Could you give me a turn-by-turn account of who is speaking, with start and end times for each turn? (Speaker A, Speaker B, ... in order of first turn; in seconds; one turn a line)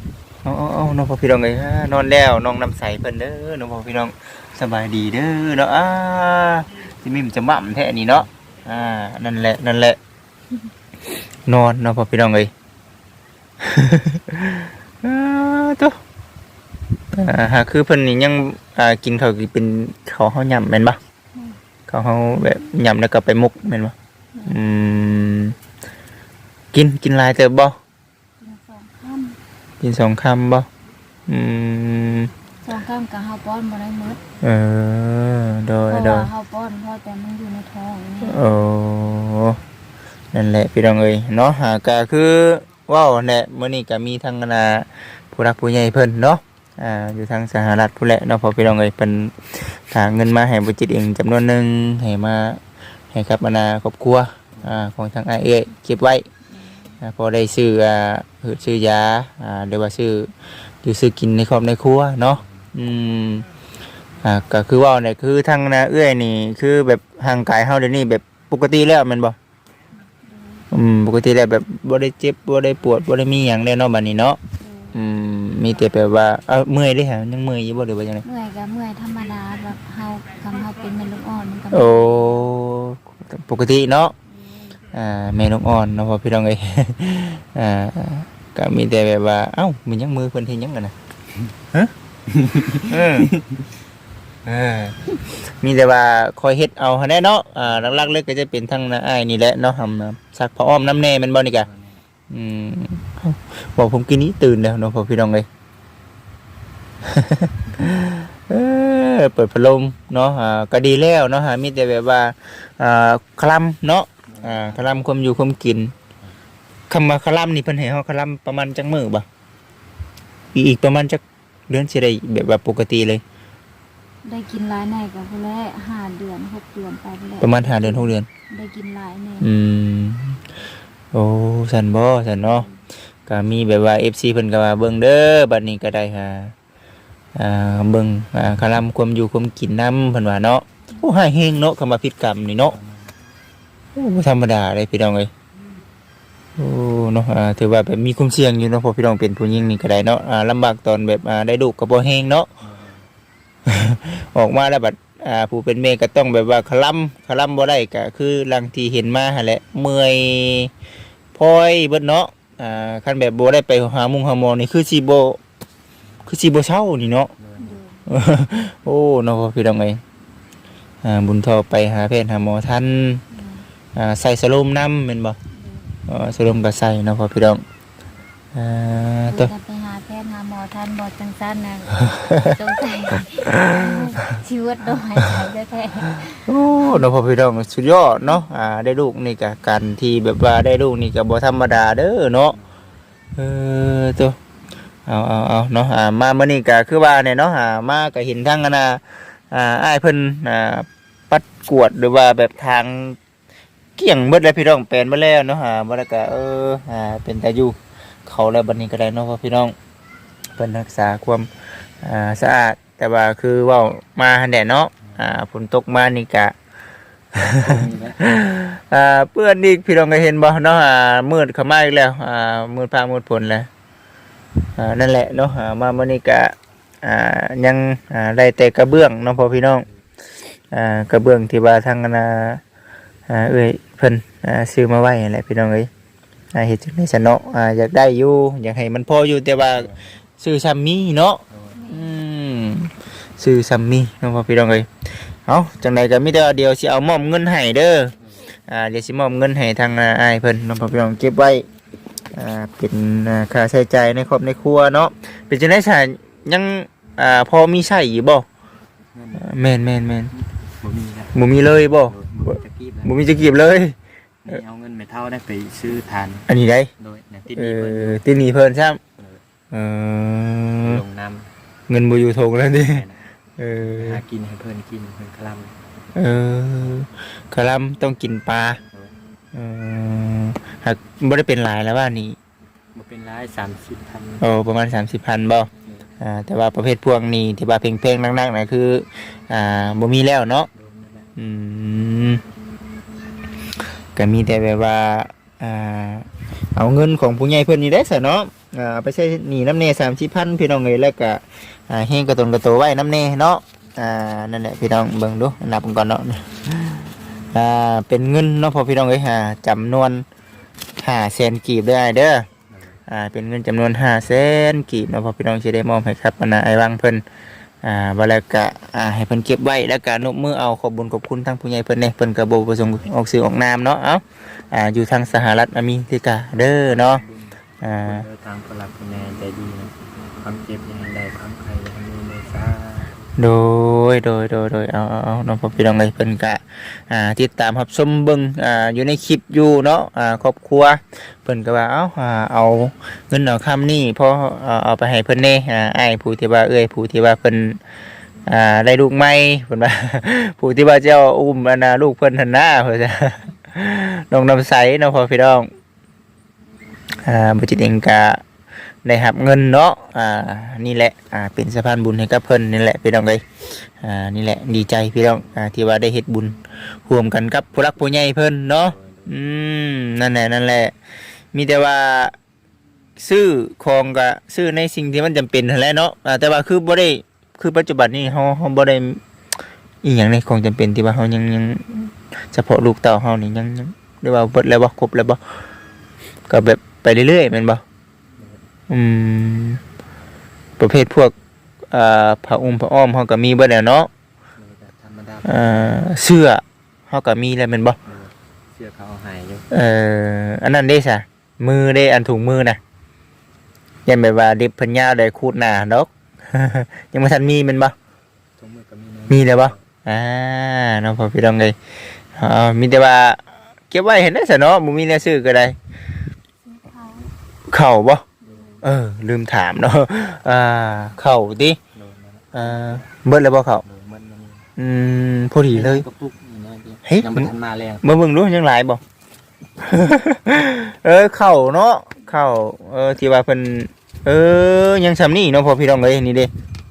Speaker A: 0.4-10.0
Speaker A: 11.5-12.5
Speaker A: 13.6-16.0
Speaker A: 17.1-21.0
Speaker A: 21.9-23.9
Speaker A: 24.5-25.6
Speaker A: 26.7-27.8
Speaker B: 28.4-29.4
Speaker A: 29.8-30.7
Speaker A: 31.3-32.3
Speaker B: 32.6-34.2
Speaker A: 34.4-36.3
Speaker B: 35.9-38.5
Speaker A: 38.2-39.6
Speaker A: 40.3-52.6
Speaker A: 53.1-56.3
Speaker A: 57.0-60.3
Speaker A: 60.8-63.5
Speaker A: 64.2-69.4
Speaker B: 70.2-70.7
Speaker A: 70.7-74.4
Speaker B: 74.6-75.0
Speaker A: 74.9-78.2
Speaker B: 78.2-82.5
Speaker A: 81.7-84.1
Speaker B: 84.4-84.8
Speaker A: 84.9-91.0
Speaker C: 92.3-93.5
Speaker A: 92.8-93.3
Speaker A: 94.5-101.7
Speaker C: 97.6-98.0
Speaker C: 101.5-102.0
Speaker A: 102.3-105.5
Speaker A: 107.0-115.9
Speaker C: 114.3-115.0
Speaker A: 116.9-119.3
Speaker A: 120.5-123.2
Speaker B: 124.3-129.5
Speaker A: 127.4-128.3
Speaker A: 129.4-130.4
Speaker A: 131.1-132.7
Speaker A: 133.3-136.5
Speaker A: 137.4-142.8
Speaker C: 142.7-143.1
Speaker A: 143.9-145.3
Speaker A: 146.6-152.5
Speaker C: 152.6-153.1
Speaker A: 153.7-160.7
Speaker A: 161.3-165.4
Speaker A: 166.3-167.3
Speaker C: 167.4-167.8
Speaker B: 167.6-168.0
Speaker A: 168.1-170.0
Speaker A: 171.0-173.2
Speaker B: 173.3-173.6
Speaker A: 173.9-175.4
Speaker B: 175.5-175.9
Speaker A: 176.1-177.6
Speaker A: 178.5-179.5
Speaker B: 179.3-187.0
Speaker A: 182.1-184.3
Speaker A: 186.5-192.6
Speaker C: 192.5-193.0
Speaker A: 193.4-194.4
Speaker A: 195.1-203.2
Speaker A: 204.0-209.8
Speaker A: 210.6-211.5
Speaker A: 212.0-216.5
Speaker A: 217.3-223.7
Speaker C: 217.6-218.2
Speaker A: 224.8-229.9
Speaker A: 230.7-232.6
Speaker A: 233.3-235.9
Speaker A: 236.5-244.9
Speaker C: 239.6-240.1
Speaker C: 241.5-241.8
Speaker B: 241.8-242.2
Speaker A: 245.5-248.1
Speaker A: 248.7-251.7
Speaker A: 252.3-258.5
Speaker C: 259.1-259.6
Speaker A: 259.4-260.3
Speaker C: 260.3-261.4
Speaker A: 261.3-264.0
Speaker C: 262.0-263.6
Speaker C: 264.4-266.5
Speaker A: 266.5-266.9
Speaker C: 267.0-268.2
Speaker A: 267.6-269.0
Speaker C: 269.2-269.4
Speaker A: 269.7-271.0
Speaker C: 270.8-271.5
Speaker A: 271.9-273.0
Speaker C: 272.8-273.2
Speaker A: 273.6-274.2
Speaker C: 273.8-275.8
Speaker A: 276.1-278.8
Speaker A: 279.5-282.4
Speaker C: 282.9-284.5
Speaker A: 284.4-290.7
Speaker C: 290.7-291.3
Speaker A: 291.4-292.4
Speaker A: 294.1-310.2
Speaker A: 311.0-312.5
Speaker C: 312.7-313.0
Speaker A: 313.1-317.2
Speaker A: 317.8-327.2
Speaker C: 326.8-333.1
Speaker A: 327.8-328.3
Speaker A: 333.4-347.8
Speaker A: 348.5-355.7
Speaker A: 357.2-358.4
Speaker A: 359.0-370.9
Speaker C: 368.8-369.3
Speaker A: 371.5-372.4
Speaker A: 373.2-379.2
Speaker A: 380.0-385.4
Speaker A: 386.5-387.8
Speaker A: 388.9-389.8
Speaker A: 390.8-391.3
Speaker A: 391.9-394.1
Speaker C: 394.6-396.1
Speaker A: 395.5-398.0
Speaker C: 398.1-399.7
Speaker A: 399.7-402.8
Speaker A: 404.1-407.9
Speaker C: 408.6-409.9
Speaker A: 409.3-411.8
Speaker A: 412.4-415.8
Speaker B: 416.6-417.3
Speaker A: 417.7-418.2
Speaker C: 418.4-418.8
Speaker A: 418.8-421.8
Speaker C: 421.9-423.1
Speaker A: 422.5-423.8
Speaker C: 423.8-424.6
Speaker A: 424.8-426.1
Speaker C: 425.7-428.1
Speaker A: 427.1-427.5
Speaker A: 428.0-429.0
Speaker A: 429.8-436.5